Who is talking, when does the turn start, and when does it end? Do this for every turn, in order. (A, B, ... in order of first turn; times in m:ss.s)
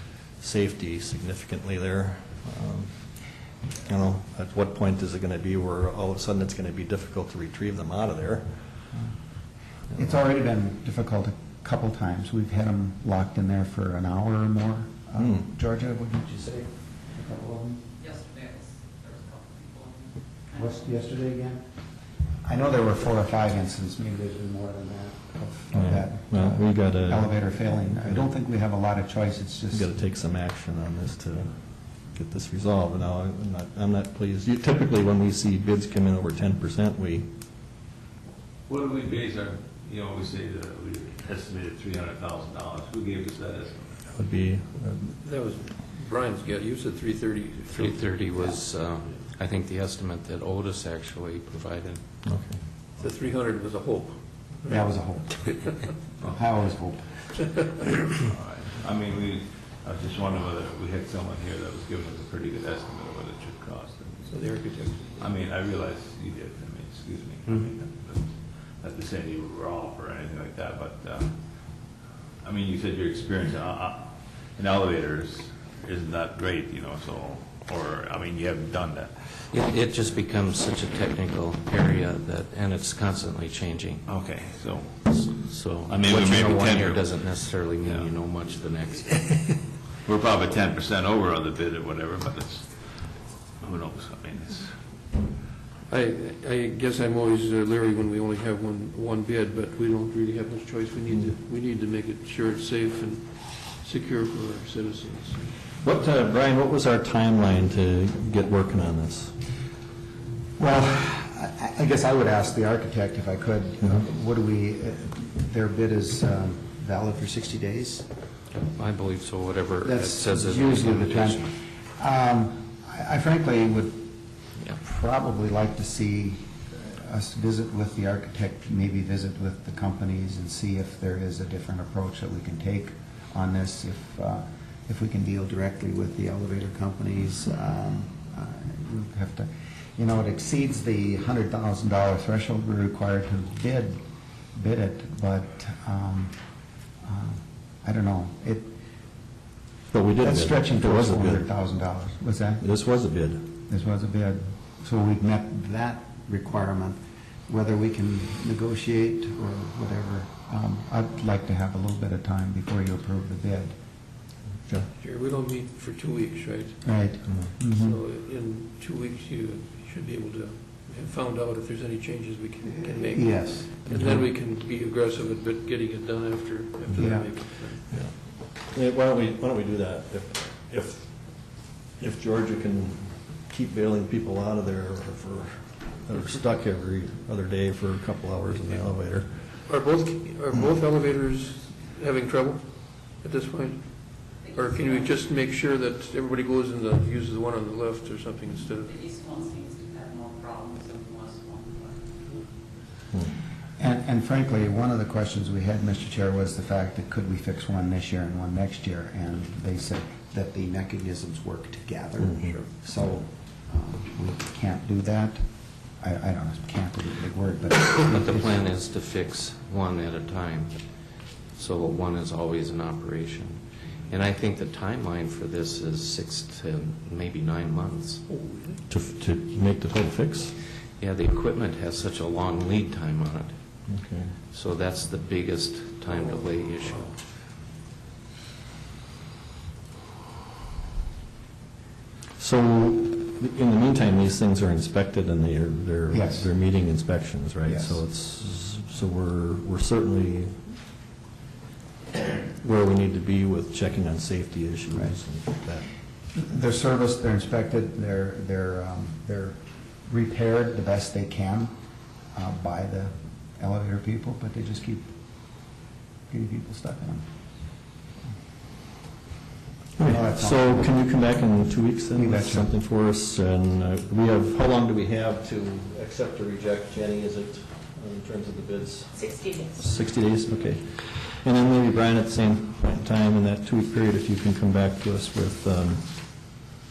0:00.4-0:03.0 A
0:03.8-0:08.6 A
0:09.9-0:17.8 B
0:15.2-0:15.4 A
0:20.5-0:21.6 B
0:22.4-0:29.9 B
0:25.7-0:27.3 A
0:29.7-0:37.3 A
0:38.7-0:43.9 C
0:44.1-0:45.2 A
0:45.1-0:49.2 D
0:47.7-0:52.0 E
0:52.2-0:52.6 A
0:53.0-0:54.8 D
0:54.6-0:55.6 B
0:56.2-0:57.6 B
0:58.2-1:04.4 C
1:04.3-1:05.3 D
1:05.2-1:11.3 C
1:12.4-1:19.5 C
1:19.5-1:24.0 E
1:24.0-1:25.3 C
1:25.1-1:29.6 E
1:25.9-1:27.2 C
1:27.8-1:28.1 C
1:30.0-1:34.8 C
1:35.9-1:45.5 D
1:45.8-1:49.3 A
1:50.6-1:58.1 B
1:58.5-2:01.5 E
1:59.8-2:04.1 B
2:04.8-2:24.0 B
2:24.5-2:26.4 B
2:27.0-2:28.7 B
2:29.9-2:31.5 A
2:30.2-2:32.6 B
2:32.6-2:33.5 A
2:33.7-2:43.8 B
2:45.0-2:47.0 D
2:46.8-2:48.0 B
2:47.7-2:57.9 D
2:52.6-2:53.7 B
2:53.9-2:54.2 A
2:57.0-2:57.3 B
2:57.9-3:09.5 A
3:09.7-3:19.1 D
3:19.4-3:21.6 F
3:23.8-3:35.4 B
3:32.2-3:32.6 A
3:36.0-3:38.6 B
3:37.9-3:40.8 E
3:41.5-3:48.2 E
3:48.3-3:48.8 D
3:48.9-3:50.5 A
3:51.0-3:53.5 E
3:53.9-3:54.3 A
3:54.5-3:57.1 E
3:56.1-3:57.1 D
4:02.4-4:10.7 A
4:06.1-4:06.5 B
4:07.6-4:08.0 B
4:12.4-4:15.9 A
4:16.3-4:21.7 B
4:22.3-4:25.1 B
4:26.3-4:27.2 B
4:30.0-4:46.6 A
4:30.0-4:31.0 B
4:32.1-4:32.7 B